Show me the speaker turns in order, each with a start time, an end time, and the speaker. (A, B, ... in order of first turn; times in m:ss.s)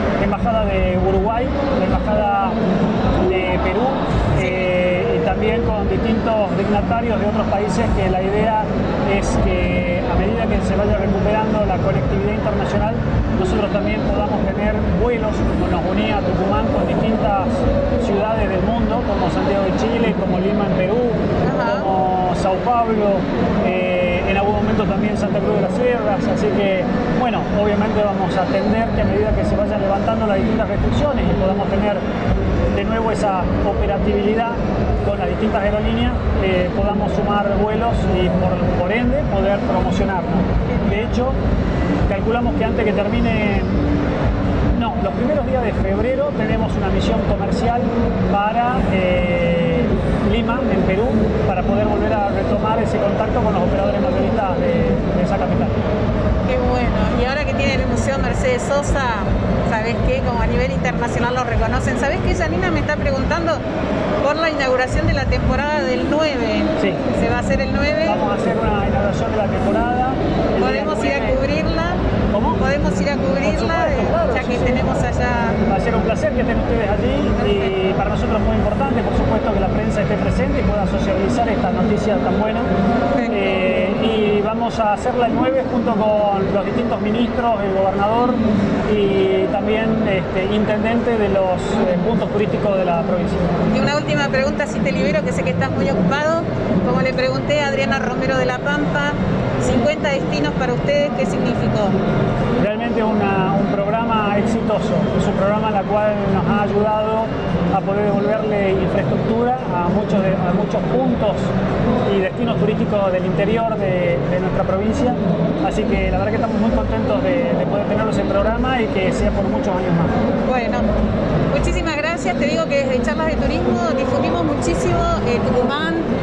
0:00.2-0:02.6 A
0:03.2-0:32.0 A
0:04.4-0:04.7 B
0:21.4-0:21.9 B
0:32.7-0:41.4 A
0:40.7-0:41.1 B
0:42.1-0:43.8 A
0:44.7-0:55.8 A
0:56.5-1:03.6 B
1:04.2-1:08.2 B
1:06.8-1:07.0 A
1:08.0-1:11.4 A
1:10.6-1:12.0 B
1:12.3-1:12.6 A
1:12.6-1:15.6 B
1:13.4-1:14.8 A
1:15.6-1:22.7 A
1:17.4-1:17.7 B
1:23.3-1:33.6 A
1:33.7-1:42.0 B
1:42.6-1:51.5 A
1:52.1-2:00.1 A
2:00.5-2:00.9 B
2:01.5-2:06.1 B